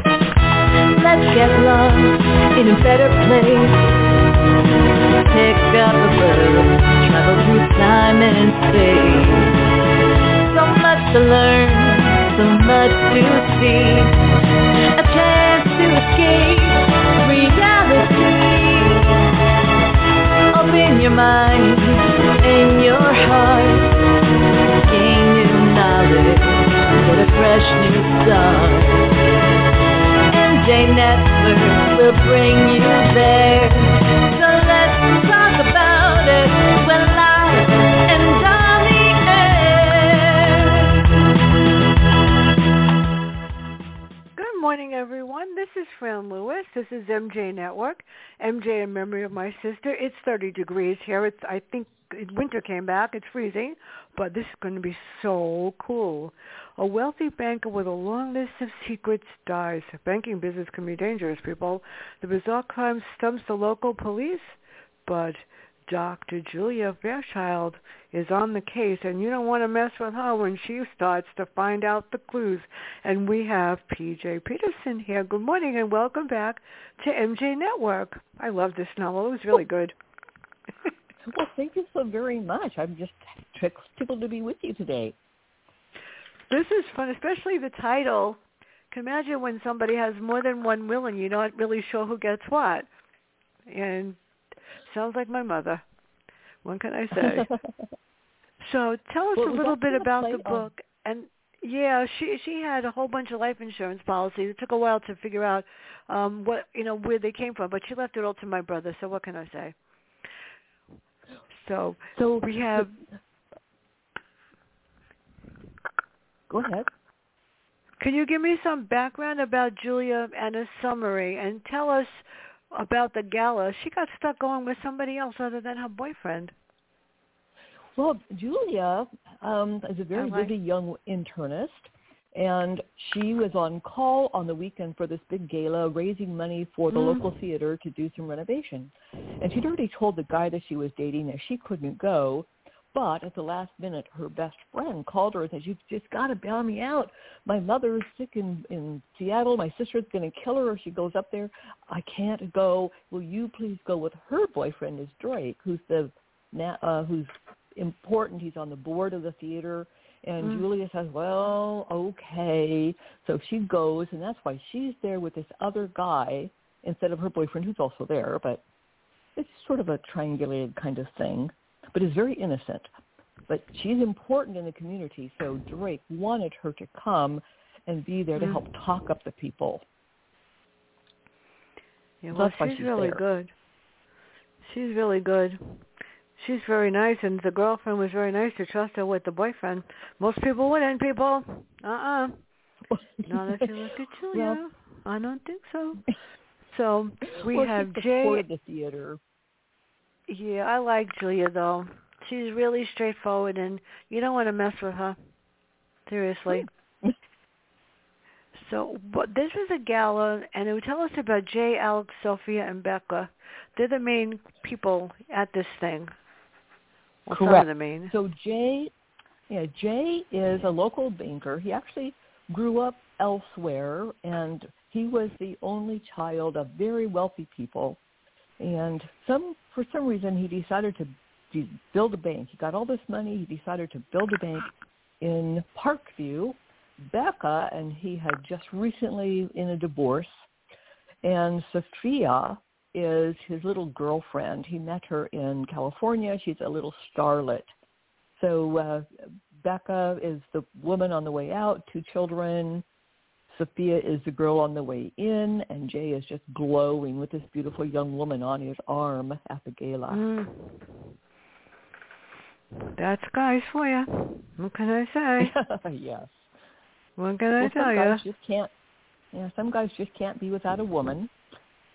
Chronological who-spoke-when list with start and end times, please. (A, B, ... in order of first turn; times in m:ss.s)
0:01.0-0:03.9 A
0:05.2-0:09.6 A
0:10.5-0:14.2 A
0:15.0-0:19.2 A
0:20.5-0:23.9 A
0:24.8-0:29.1 A
0:30.3-0:40.8 A
0:44.4-1:20.0 B
1:21.3-1:25.2 C
1:26.5-1:28.4 B
1:28.9-1:32.9 B
1:33.7-1:34.2 B
1:34.9-1:35.8 B
1:36.6-1:37.5 B
1:37.2-1:37.7 C
1:38.6-1:49.8 B
1:39.4-1:40.7 C
1:51.6-1:53.0 B
1:52.2-1:52.9 C
1:56.5-1:56.9 C
1:58.0-2:06.5 B
2:08.0-2:48.6 C
2:10.2-2:10.5 B
2:16.9-2:17.2 B
2:49.4-2:52.9 C
2:53.5-2:59.8 C
3:02.2-3:03.5 B
3:02.3-3:03.2 C
3:04.6-3:05.8 B
3:06.4-3:12.4 B
3:12.9-3:13.7 C
3:13.3-3:16.0 B
3:14.3-3:14.6 C
3:16.7-3:18.4 B
3:17.4-3:19.2 C
3:20.3-3:25.2 B
3:26.1-3:26.7 B
3:26.5-3:27.1 C
3:28.6-3:36.1 B
3:37.3-3:38.1 B
3:37.3-3:38.9 C
3:39.5-3:48.0 C
3:48.6-4:00.4 C
4:01.2-4:07.7 C
4:08.4-4:09.1 C
4:09.6-4:12.8 C
4:13.5-4:20.3 C
4:20.1-4:20.8 B
4:23.0-4:25.5 B
4:25.4-4:26.4 C
4:27.2-4:28.2 B
4:27.6-4:28.7 C
4:29.3-4:31.3 C